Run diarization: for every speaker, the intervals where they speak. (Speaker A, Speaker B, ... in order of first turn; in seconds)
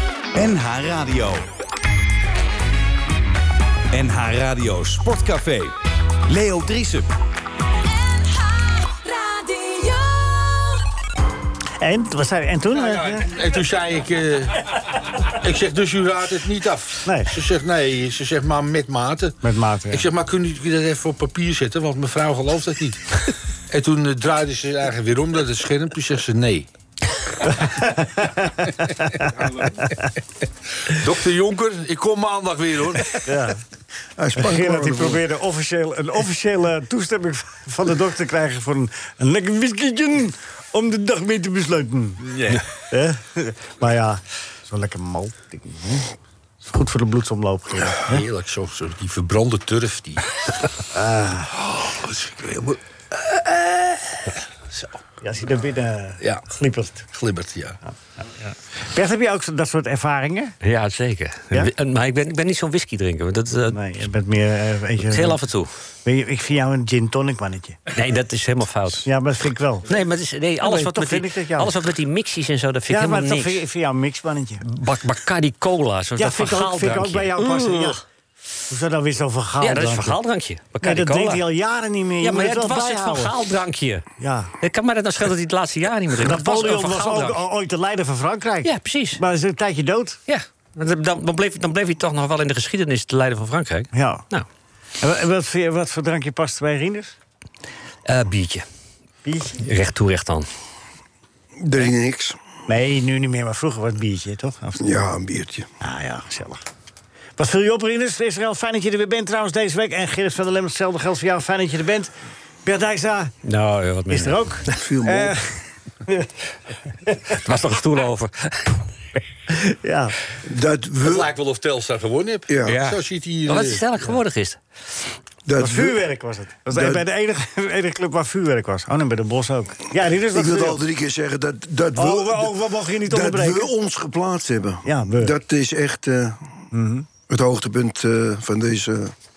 Speaker A: 0.3-1.4, 3.9-5.8, 6.3-7.1
Speaker B: 7.9-10.8
Speaker C: 11.8-13.3, 17.1-17.3, 19.4-20.1, 27.5-29.3, 29.8-30.1, 33.2-33.6, 34.4-42.2, 42.9-46.1, 46.6-48.2, 50.9-51.5, 55.2-57.0, 58.9-60.5, 63.7-65.4, 66.0-67.8, 69.0-69.9, 70.6-71.7, 72.9-74.7, 76.2-78.0, 78.7-80.2, 80.8-83.3, 84.2-84.5, 86.2-90.2, 93.9-94.2, 95.0-97.1, 99.2-99.6, 102.7-105.1, 105.8-106.6, 107.4-112.1, 112.7-113.3, 114.1-116.3, 119.5-120.2, 125.6-130.8, 132.0-133.7, 134.8-135.3, 136.7-137.1
Speaker D: 12.7-19.4, 19.9-26.7, 30.8-33.2, 42.2-42.6, 48.0-50.7, 51.6-55.0, 57.1-57.8, 121.0-123.8
Speaker E: 34.2-35.2, 101.6-102.4, 104.8-105.7, 114.7-115.4, 120.5-121.3, 122.5-122.8, 125.5-126.0, 126.7-127.0, 130.3-136.5, 137.3-139.1
Speaker F: 60.6-63.8, 65.0-65.7, 67.9-69.1, 69.9-73.6, 74.7-78.0, 79.6-81.5, 82.2-84.0, 84.6-87.4, 88.6-89.2, 90.3-94.5, 98.1-98.7, 99.6-100.5, 113.5-114.4, 117.3-118.8, 122.7-124.6